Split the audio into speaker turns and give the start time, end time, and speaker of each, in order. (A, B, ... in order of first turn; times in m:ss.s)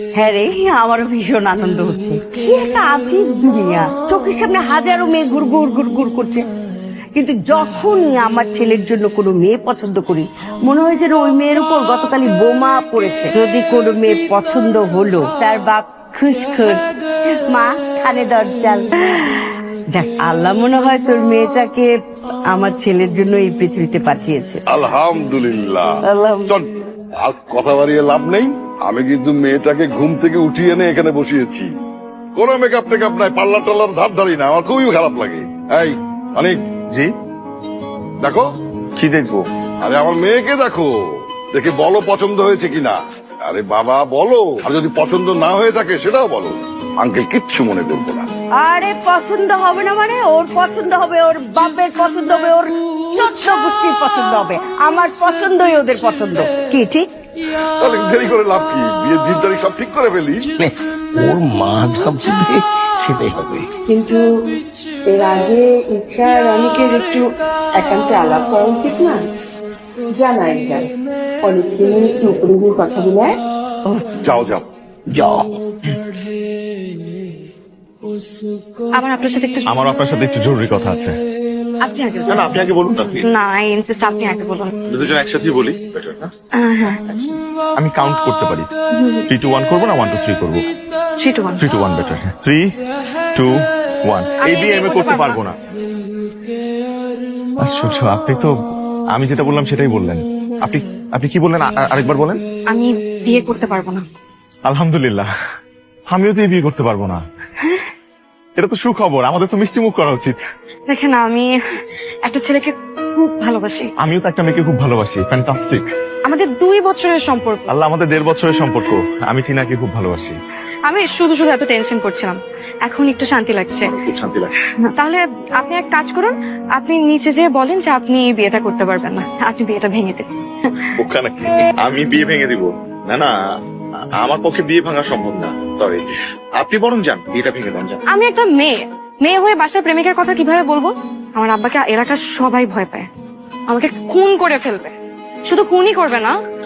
0:00.2-0:06.4 A
0:07.2-0:16.8 A
0:17.5-0:21.9 A
0:22.5-0:24.6 A
0:24.7-0:26.0 B
0:26.0-0:26.5 A
0:26.5-0:31.7 B
0:32.3-0:36.6 B
0:38.2-0:38.5 B
0:39.0-0:39.4 C
0:39.8-0:40.9 B
0:41.5-0:48.3 B
0:48.6-0:57.1 A
0:57.8-1:00.4 B
1:00.6-1:03.7 D
1:03.9-1:04.2 E
1:05.1-1:07.2 E
1:07.8-1:09.2 E
1:10.1-1:10.9 E
1:11.4-1:13.4 E
1:14.2-1:14.7 B
1:15.1-1:15.6 D
1:19.0-1:19.7 F
1:19.7-1:21.1 C
1:21.8-1:22.4 F
1:22.3-1:23.2 C
1:23.2-1:24.7 F
1:24.9-1:26.3 C
1:26.6-1:27.0 F
1:27.0-1:28.7 C
1:28.9-1:29.2 F
1:29.3-1:30.7 C
1:31.2-1:31.7 F
1:31.6-1:32.6 C
1:34.1-1:35.6 C
1:34.4-1:35.4 F
1:37.6-1:38.5 C
1:39.1-1:42.4 C
1:42.7-1:44.0 F
1:44.6-1:45.3 C
1:46.1-1:47.2 C
1:48.6-1:50.4 C
1:50.9-1:51.5 F
1:52.2-1:53.9 F
1:54.0-1:55.9 C
1:56.2-1:57.7 F
1:57.7-2:00.4 C
2:00.9-2:03.9 F
2:03.8-2:04.5 C
2:04.9-2:10.8 F
2:11.0-2:13.3 C
2:14.2-2:16.0 C
2:16.6-2:18.0 C
2:18.1-2:23.1 F
2:23.7-2:24.9 F
2:25.5-2:26.3 F